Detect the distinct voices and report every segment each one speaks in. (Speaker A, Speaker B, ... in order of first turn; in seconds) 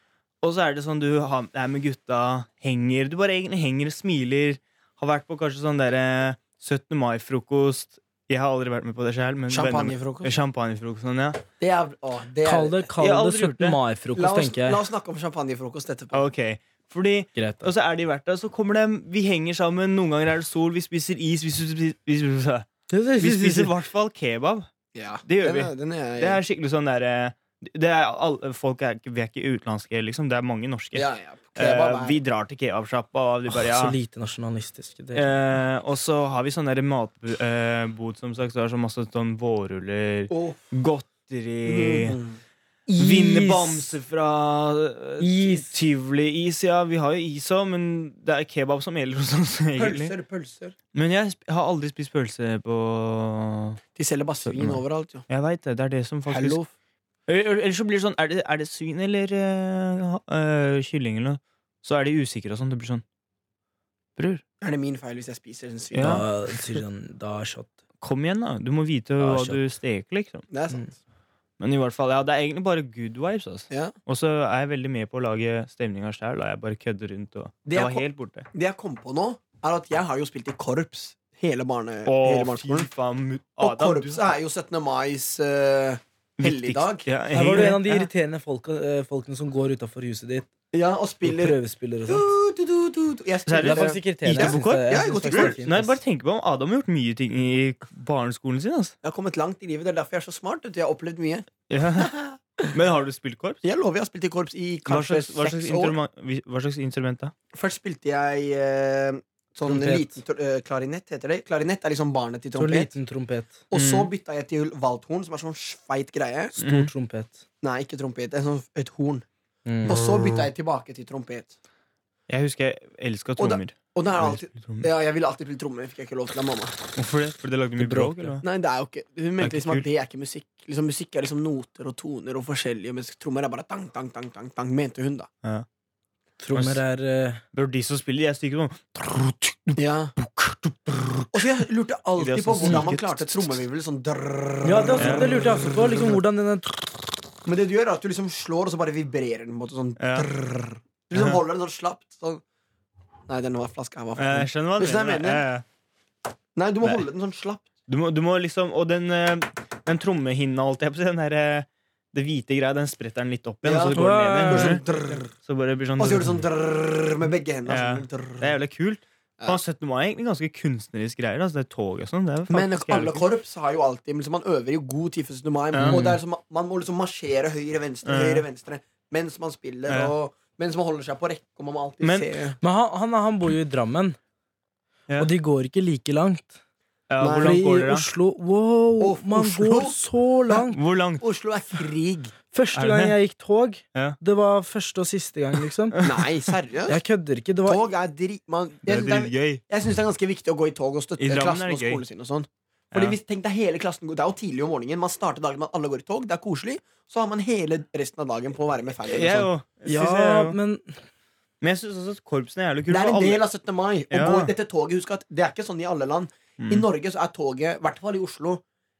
Speaker A: 0.4-11.4, 13.0-13.8, 16.1-22.7, 23.2-24.7, 25.2-34.0, 35.1-42.2, 43.0-50.1, 50.9-53.8, 54.5-56.6, 57.3-63.0, 64.2-64.4, 65.9-66.2, 68.0-70.4, 71.6-78.5, 82.0-84.2, 86.4-88.1, 93.5-98.9, 101.7-102.1, 102.7-103.6, 104.9-107.3, 113.7-114.1, 116.6-116.9, 119.8-120.5, 122.3-124.9, 126.9-128.4, 129.4-129.8, 136.5-136.8, 137.5-141.3, 142.2-143.6, 145.0-145.2, 150.0-150.3, 151.1-151.4, 154.2-155.6, 157.9-164.8, 165.4-166.4, 167.7-173.2, 175.7-176.1, 178.1-178.4, 179.9-180.1, 182.0-182.3, 187.1-188.1, 190.7-191.2, 192.7-193.1, 195.9-196.3, 198.8-199.6, 201.2-202.0, 202.9-203.2, 209.1-210.6, 211.6-213.4, 214.1-214.5, 216.6-216.8
Speaker B: 9.5-10.4, 11.6-12.9, 14.2-16.2, 24.9-26.4, 30.9-32.2, 40.3-40.7, 41.6-42.4, 49.8-50.7, 53.9-55.2, 56.3-56.7, 64.6-66.2, 70.5-70.9, 77.7-82.9, 83.6-87.8, 90.7-95.6, 99.0-102.7, 103.6-106.0, 107.5-112.9, 113.7-116.5, 117.6-119.2, 119.8-121.5, 123.4-126.8, 128.4-135.3, 139.8-140.1, 141.3-146.2, 147.4-152.4, 153.3-155.4, 156.6-157.7, 163.6-165.3, 166.0-168.6, 172.5-182.6, 187.2-187.6, 189.0-190.0, 191.2-192.3, 196.0-197.0, 197.7-209.5, 212.9-218.6
Speaker C: 12.4-14.8, 17.4-17.7, 22.9-23.7, 33.5-35.4, 42.9-43.9, 45.2-45.7, 66.0-67.7, 69.2-69.6, 87.3-90.5, 91.2-92.2, 93.6-95.9, 109.6-110.2, 112.5-113.6, 116.6-117.4, 119.7-120.0, 127.8-128.4, 136.4-137.4, 144.6-146.9, 163.9-164.8, 175.9-176.1, 182.6-184.2, 185.2-186.6, 187.4-190.8, 192.5-196.0, 196.9-197.8, 209.8-211.0